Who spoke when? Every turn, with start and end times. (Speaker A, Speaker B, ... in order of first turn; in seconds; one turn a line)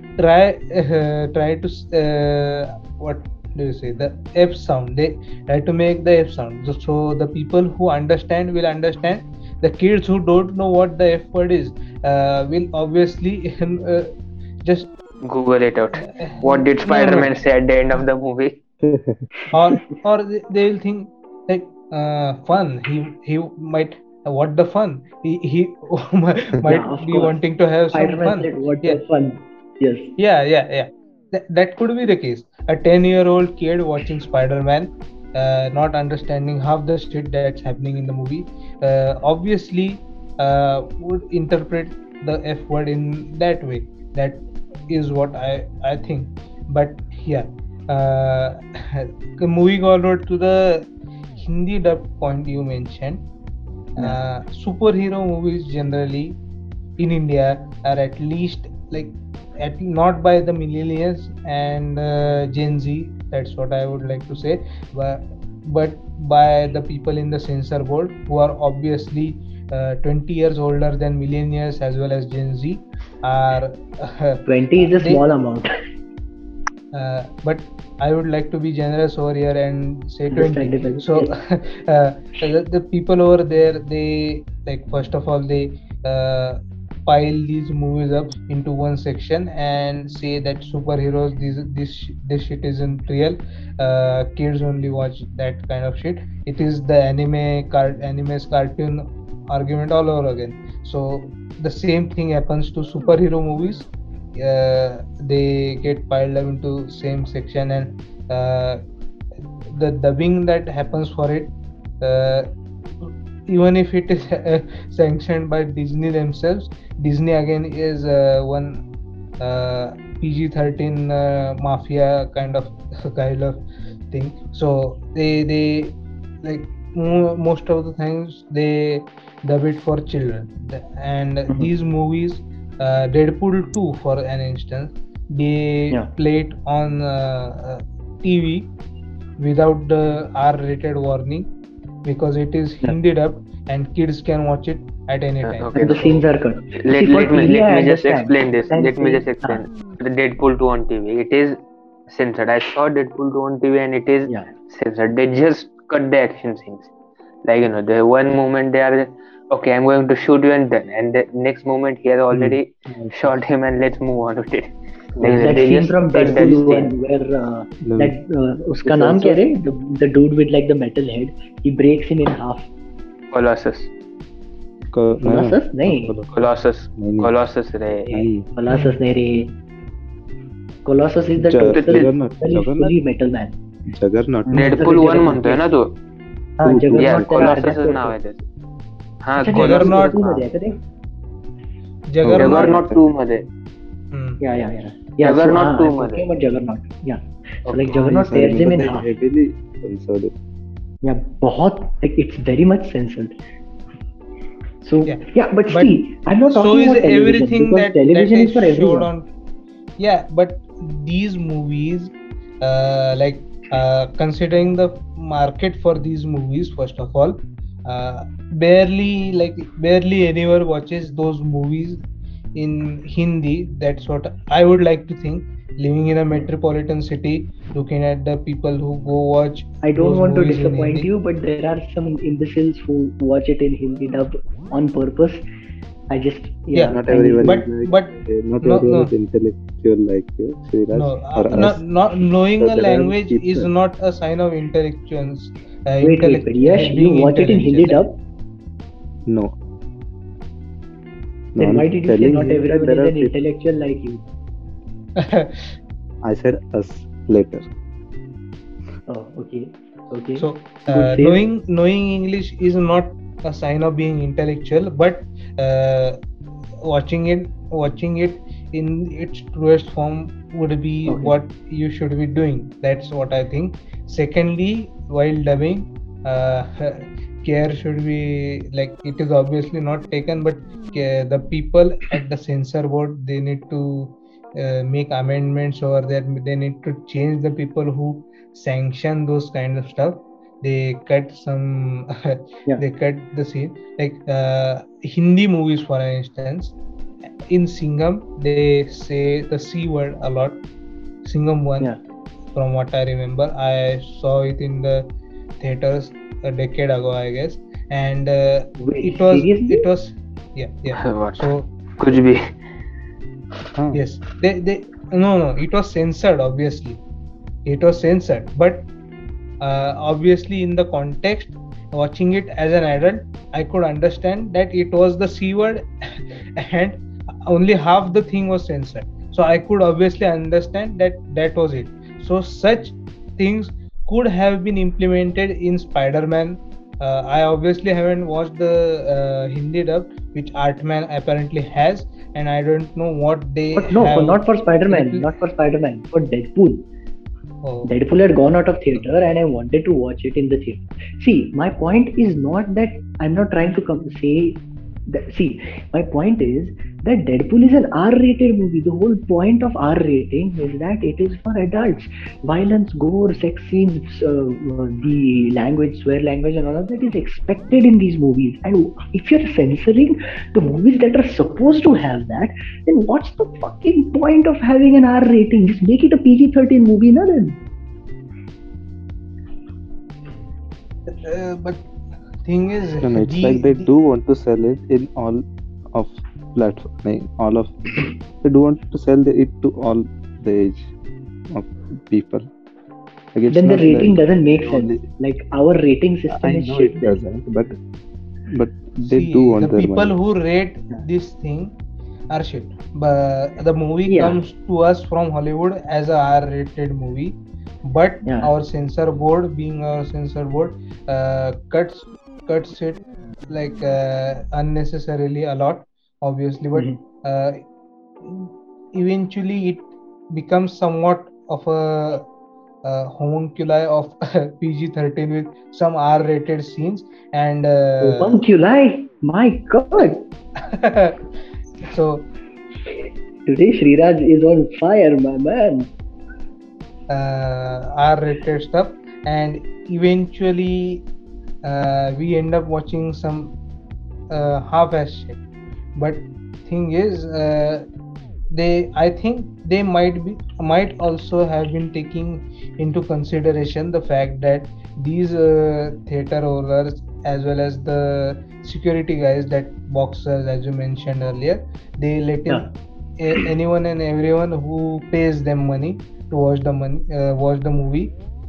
Speaker A: 0.2-14.1
Speaker A: 14.6-14.9
Speaker B: 15.2-18.6
Speaker A: 16.0-17.3
Speaker C: 18.8-19.2
Speaker A: 19.5-29.0
Speaker D: 26.6-27.4
Speaker D: 27.9-30.1
Speaker A: 30.2-53.2
Speaker A: 54.0-56.4
Speaker A: 57.0-75.2
Speaker D: 74.5-75.7
Speaker A: 76.9-108.8
Speaker D: 80.3-81.3
Speaker A: 109.7-112.5
Speaker A: 113.0-118.8
Speaker A: 119.4-138.7
Speaker A: 139.4-141.5
Speaker A: 142.0-146.2
Speaker B: 145.4-146.1
Speaker D: 145.8-149.6
Speaker B: 146.8-156.9
Speaker D: 154.3-154.5
Speaker B: 157.4-166.9
Speaker C: 162.3-163.3
Speaker C: 165.2-165.6
Speaker D: 165.2-172.6
Speaker C: 166.3-166.6
Speaker C: 167.8-168.2
Speaker C: 168.8-169.4
Speaker B: 173.3-173.9
Speaker C: 174.9-177.3
Speaker D: 175.2-176.2
Speaker B: 176.3-178.3
Speaker C: 178.1-178.5
Speaker D: 178.5-179.5
Speaker A: 178.7-179.0
Speaker D: 180.8-183.6
Speaker C: 181.4-182.9
Speaker B: 181.6-182.1
Speaker C: 183.9-185.3
Speaker D: 184.4-185.6
Speaker B: 184.5-185.9
Speaker D: 186.6-188.2
Speaker C: 186.6-187.7
Speaker B: 186.9-188.4
Speaker B: 189.2-190.4
Speaker D: 189.4-190.8
Speaker A: 189.4-190.2
Speaker A: 192.1-192.8
Speaker C: 192.2-193.0
Speaker B: 192.3-193.5
Speaker A: 194.1-194.4
Speaker D: 194.4-199.1
Speaker B: 195.2-196.2
Speaker B: 197.7-198.0
Speaker C: 197.9-200.4
Speaker D: 201.0-203.3
Speaker D: 204.8-209.1
Speaker A: 205.0-205.9
Speaker A: 206.5-209.3
Speaker A: 210.0-222.0
Speaker A: 222.5-231.1
Speaker D: 229.8-235.4
Speaker D: 236.1-237.5
Speaker A: 236.7-239.1
Speaker C: 236.8-241.8
Speaker A: 240.9-248.0
Speaker C: 242.6-243.7
Speaker D: 246.0-248.2
Speaker C: 249.2-249.5
Speaker C: 251.6-253.4
Speaker D: 251.6-254.3
Speaker A: 255.2-255.7
Speaker C: 256.2-257.7
Speaker D: 259.1-261.4
Speaker A: 260.4-266.2
Speaker A: 266.8-296.8
Speaker D: 271.1-271.3
Speaker A: 297.5-300.6
Speaker A: 301.2-301.9
Speaker A: 302.5-311.7
Speaker D: 308.8-309.9
Speaker B: 310.9-312.5
Speaker A: 313.9-317.0
Speaker A: 317.6-318.9
Speaker A: 319.6-345.3
Speaker D: 343.8-346.8
Speaker A: 347.6-347.9
Speaker D: 347.8-377.6
Speaker A: 381.1-381.9
Speaker A: 382.4-383.9
Speaker C: 383.0-390.9
Speaker C: 391.5-392.5
Speaker C: 393.3-395.0
Speaker D: 393.5-397.2
Speaker C: 396.3-397.7
Speaker C: 398.5-400.1
Speaker A: 399.0-401.7
Speaker A: 402.3-417.6
Speaker D: 404.1-404.4
Speaker D: 408.2-408.5
Speaker A: 418.2-422.2
Speaker A: 422.8-428.4
Speaker D: 428.0-430.2
Speaker A: 430.6-431.2
Speaker A: 431.8-432.3
Speaker D: 433.4-435.9
Speaker A: 437.1-441.0
Speaker A: 441.6-443.6
Speaker A: 444.3-445.4
Speaker A: 445.9-447.9
Speaker A: 448.5-462.6
Speaker A: 463.2-468.1